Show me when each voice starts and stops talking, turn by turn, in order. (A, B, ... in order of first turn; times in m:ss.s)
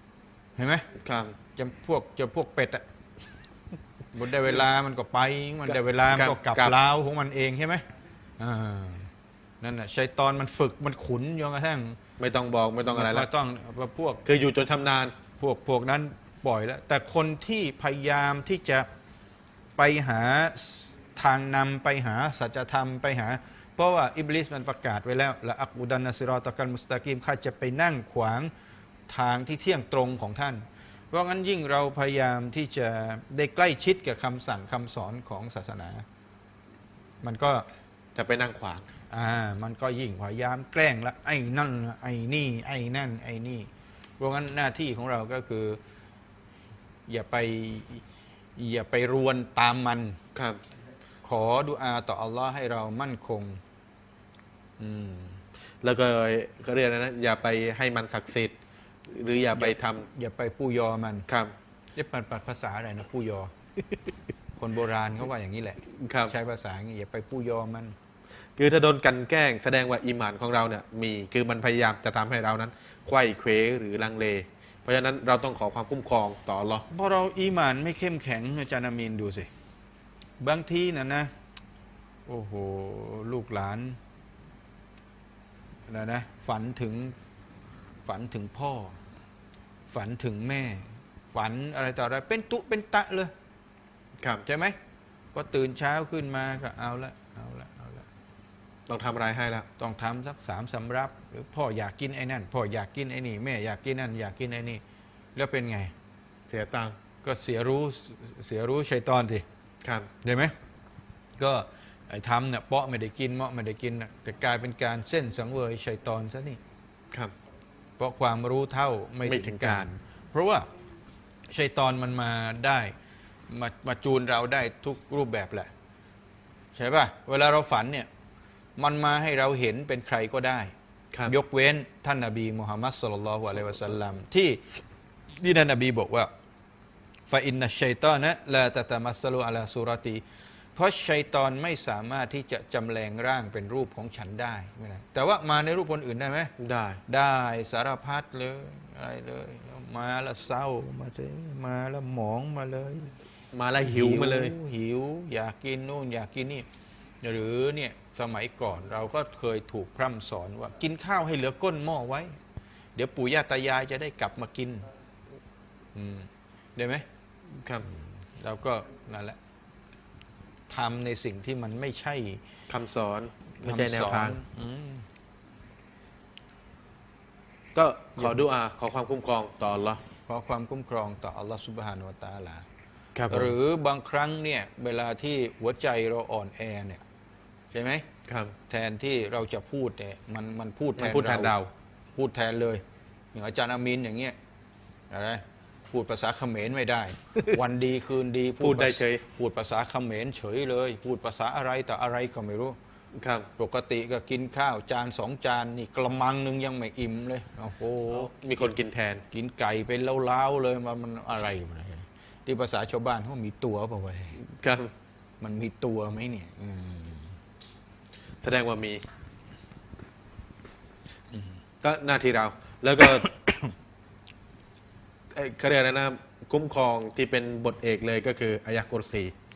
0:00.6-0:00.8 A
0:01.0-0:01.4 B
0:01.6-0:02.8 A
0:04.2-0:07.8 A
0:05.7-0:06.8 B
0:08.4-0:09.1 A
0:09.6-0:12.0 A
0:12.2-0:13.3 B
0:12.9-0:14.3 A
0:14.2-0:15.2 B
0:15.4-0:18.9 A
0:19.8-0:28.5 A
0:29.1-0:36.0 A
0:37.2-0:37.7 A
0:38.2-0:38.9 B
0:39.1-0:45.8 A
0:47.1-0:48.0 A
0:48.6-0:50.2 A
0:50.4-0:50.6 B
0:51.2-0:53.6 A
0:54.8-0:55.4 A
0:55.8-0:58.5 B
0:59.1-1:00.1 B
0:59.6-1:01.3 A
1:02.0-1:03.5 A
1:04.6-1:08.0 A
1:06.0-1:06.3 B
1:08.6-1:16.8 B
1:16.9-1:19.5 A
1:20.4-1:21.3 A
1:22.3-1:24.0 A
1:25.9-1:27.2 A
1:28.1-1:29.0 A
1:29.9-1:33.3 A
1:34.5-1:34.8 A
1:35.3-1:38.1 A
1:38.9-1:39.7 B
1:39.8-1:44.8 A
1:45.4-1:45.9 A
1:46.5-1:47.0 B
1:47.2-1:49.4 A
1:49.8-1:50.1 B
1:50.2-1:50.5 A
1:51.4-1:56.6 A
1:58.0-2:00.7 A
1:59.2-1:59.9 B
2:01.5-2:02.9 A
2:03.5-2:05.7 A
2:06.8-2:08.1 A
2:08.8-2:10.7 A
2:11.3-2:14.6 A
2:15.4-2:16.3 A
2:17.3-2:20.2 A
2:20.8-2:26.5 A
2:26.6-2:27.0 B
2:27.1-2:33.1 A
2:33.5-2:34.5 B
2:33.8-2:36.7 A
2:37.2-2:42.3 A
2:43.0-2:44.9 A
2:46.0-2:47.0 A
2:47.6-2:47.9 B
2:47.9-2:49.4 A
2:50.7-2:52.4 A
2:52.7-2:54.4 B
2:53.6-2:55.0 A
2:57.8-3:00.0 B
2:58.2-2:58.4 A
3:00.3-3:02.6 A
3:03.2-3:03.5 B
3:03.3-3:07.0 A
3:07.7-3:08.0 A
3:08.3-3:08.5 B
3:08.7-3:11.6 A
3:11.0-3:11.7 B
3:12.2-3:12.8 A
3:13.3-3:14.4 A
3:15.1-3:22.8 A
3:18.6-3:19.2 B
3:23.2-3:23.5 B
3:23.6-3:28.7 A
3:28.1-3:29.2 B
3:29.3-3:34.4 A
3:34.4-3:34.9 B
3:35.4-3:37.3 A
3:38.4-3:39.0 B
3:41.8-3:43.3 B
3:43.2-3:43.7 A
3:45.3-3:49.3 B